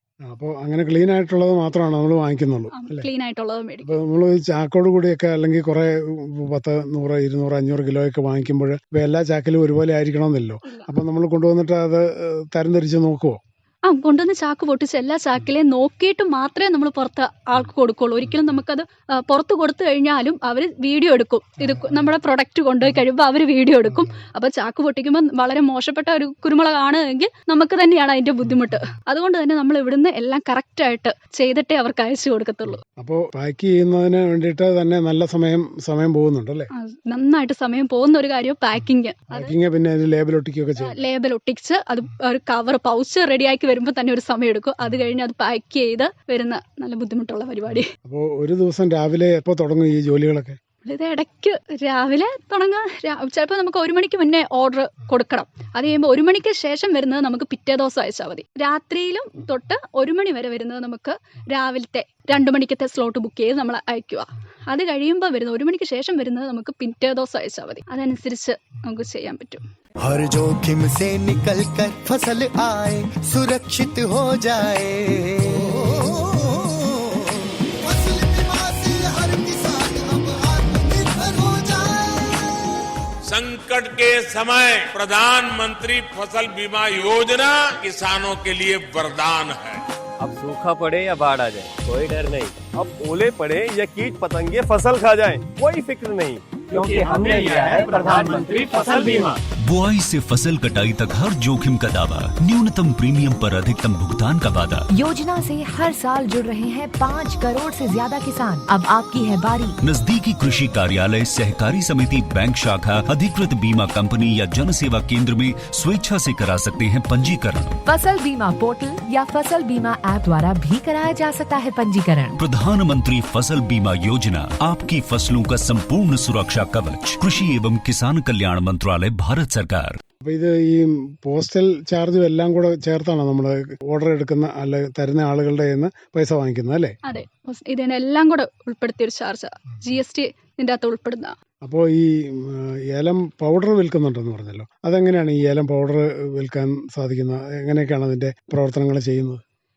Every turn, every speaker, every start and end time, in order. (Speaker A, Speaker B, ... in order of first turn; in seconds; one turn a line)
Speaker A: 0.2-3.1
Speaker B: 2.7-3.9
Speaker A: 3.8-13.4
Speaker B: 13.8-32.8
Speaker A: 21.6-22.1
Speaker A: 23.9-24.2
Speaker A: 33.0-36.7
Speaker B: 36.8-39.5
Speaker A: 39.3-41.0
Speaker B: 40.8-47.9
Speaker A: 48.0-50.6
Speaker B: 50.8-69.7
Speaker C: 70.0-82.5
Speaker D: 83.3-89.8
Speaker E: 90.2-99.4
Speaker D: 96.7-99.2
Speaker F: 99.7-104.8
Speaker G: 104.9-109.8
Speaker F: 109.8-117.8
Speaker G: 117.8-122.4
Speaker F: 122.4-130.0
Speaker A: 130.2-136.9
Speaker B: 137.0-141.3
Speaker A: 141.6-149.4